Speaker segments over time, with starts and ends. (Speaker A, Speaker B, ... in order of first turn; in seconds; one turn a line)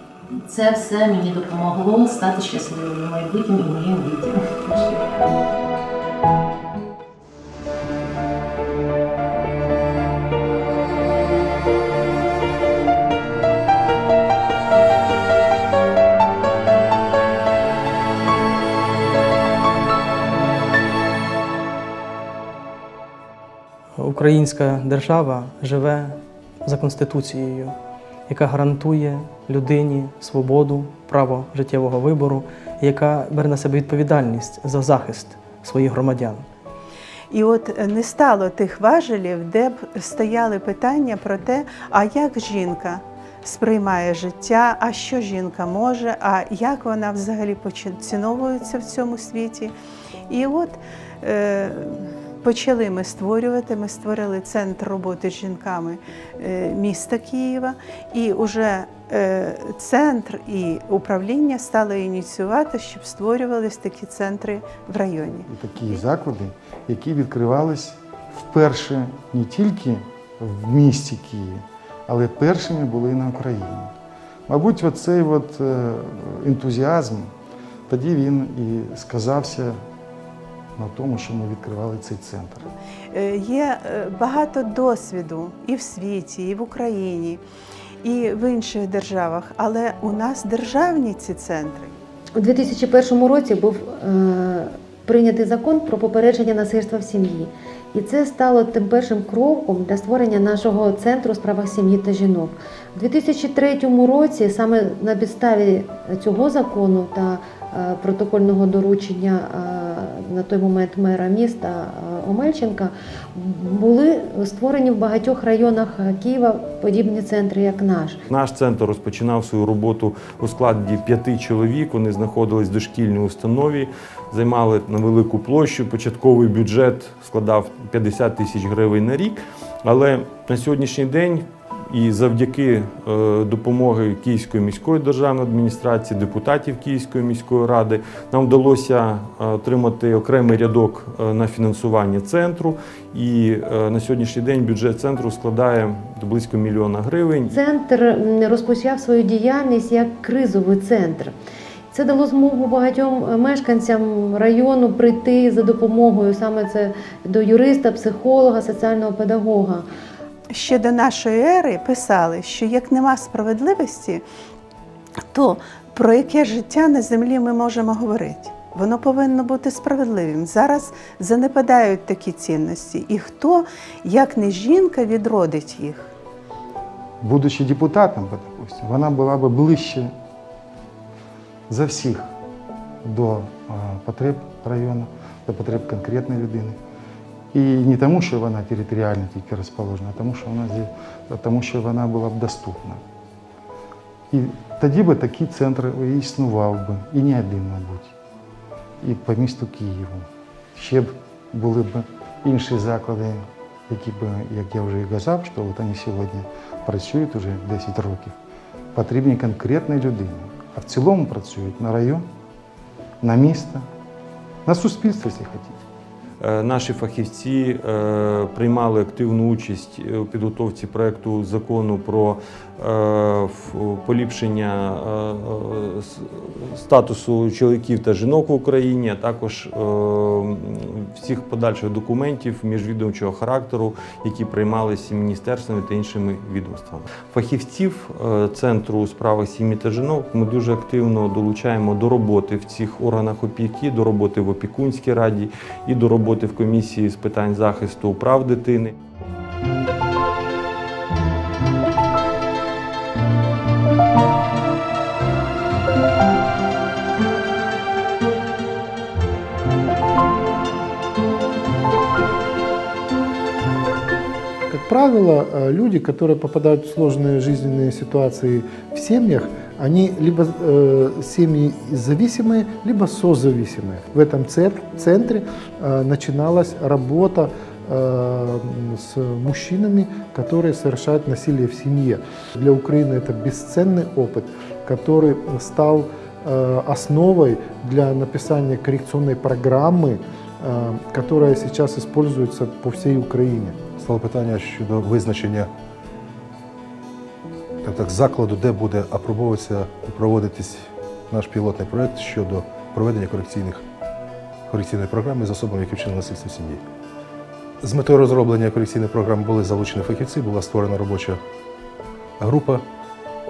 Speaker A: 0.3-5.2
Speaker B: 24.0-27.8
Speaker B: 28.3-36.5
Speaker C: 37.3-49.7
Speaker C: 50.3-65.5
Speaker D: 65.5-73.9
Speaker D: 74.5-77.3
Speaker D: 77.9-79.8
Speaker D: 80.8-82.7
Speaker C: 83.1-87.4
Speaker C: 88.0-91.9
Speaker E: 92.3-118.2
Speaker F: 118.3-147.6
Speaker E: 147.5-151.3
Speaker E: 151.9-159.8
Speaker C: 160.5-164.2
Speaker C: 165.3-176.1
Speaker D: 177.2-180.1
Speaker D: 181.7-182.3
Speaker D: 183.0-186.8
Speaker D: 187.5-193.0
Speaker D: 194.3-198.1
Speaker D: 199.0-208.3
Speaker D: 208.9-212.2
Speaker D: 213.2-213.8
Speaker D: 214.7-215.8
Speaker F: 216.4-248.9
Speaker G: 264.7-293.9
Speaker H: 294.0-295.7
Speaker H: 297.8-303.8
Speaker H: 304.7-306.8
Speaker H: 307.8-311.4
Speaker H: 312.4-312.9